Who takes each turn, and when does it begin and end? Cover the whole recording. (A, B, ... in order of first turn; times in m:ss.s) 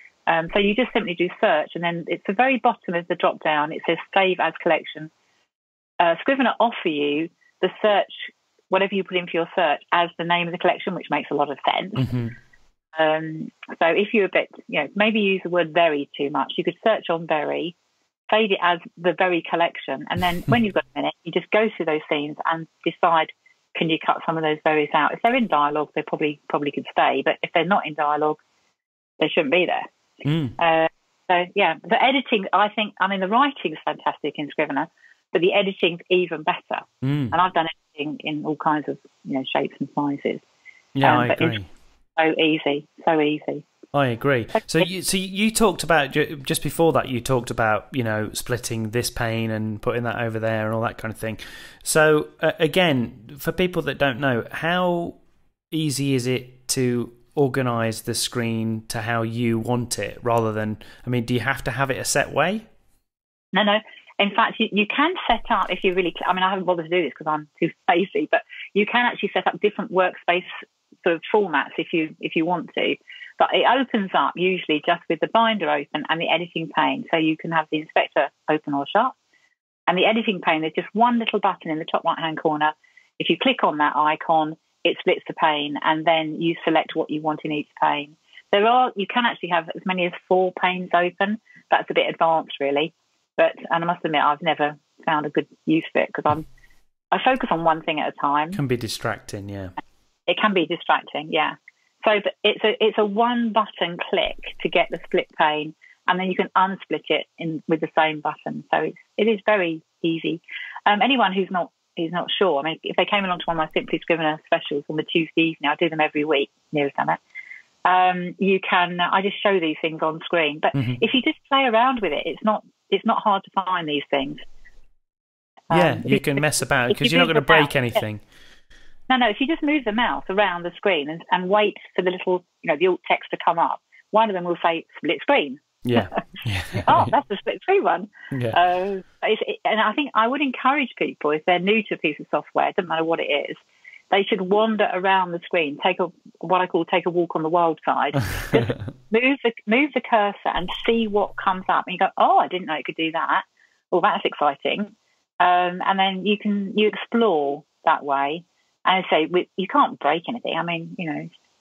0:00.3-0:05.1 A
0:06.0-0:12.1 A
0:12.0-0:12.3 B
0:13.0-0:17.7 A
0:18.3-0:28.4 A
0:29.2-0:29.9 A
0:30.2-0:30.6 B
0:30.6-0:40.4 A
0:37.0-0:37.3 B
0:40.9-0:41.7 B
0:41.0-0:41.6 A
0:42.2-0:43.6 A
0:43.9-0:55.2 B
0:55.7-1:02.6 B
1:03.5-1:19.1 A
1:19.9-1:36.4 A
1:37.1-1:38.6 A
1:38.5-1:39.7 B
1:40.3-1:57.2 A
1:57.8-2:04.4 A
2:00.7-2:01.0 B
2:05.7-2:08.0 A
2:05.7-2:08.2 B
2:09.1-2:16.2 A
2:15.8-2:17.1 B
2:16.7-2:23.6 A
2:18.3-2:18.6 B
2:24.1-2:41.3 A